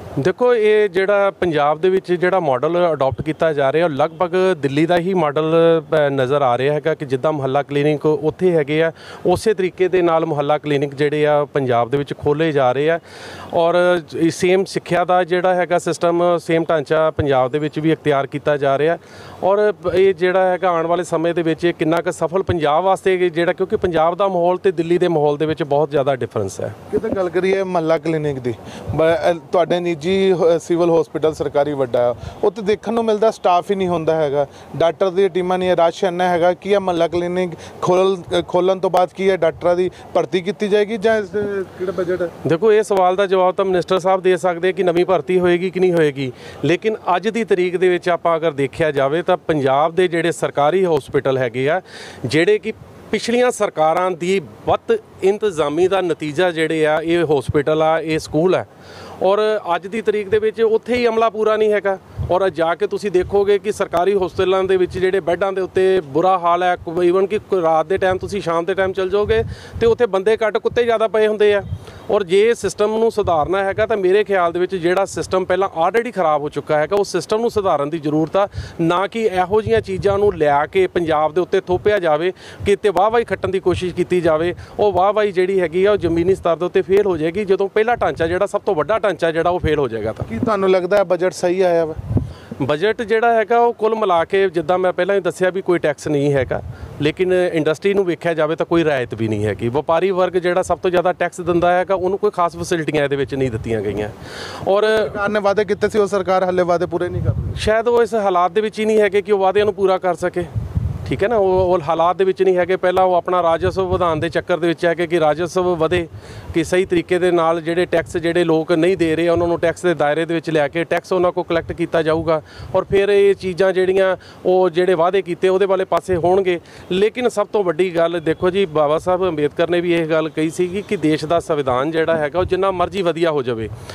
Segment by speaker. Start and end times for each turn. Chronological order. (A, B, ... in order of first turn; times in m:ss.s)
0:00.2-0:13.0 A
0:13.5-0:26.8 A
0:26.9-0:42.3 B
0:42.4-0:58.7 A
0:59.2-1:30.2 A
1:30.3-1:32.0 B
1:32.6-1:44.1 A
1:44.6-1:45.0 A
1:44.8-1:47.5 B
1:47.5-1:50.5 A
1:51.0-2:13.7 A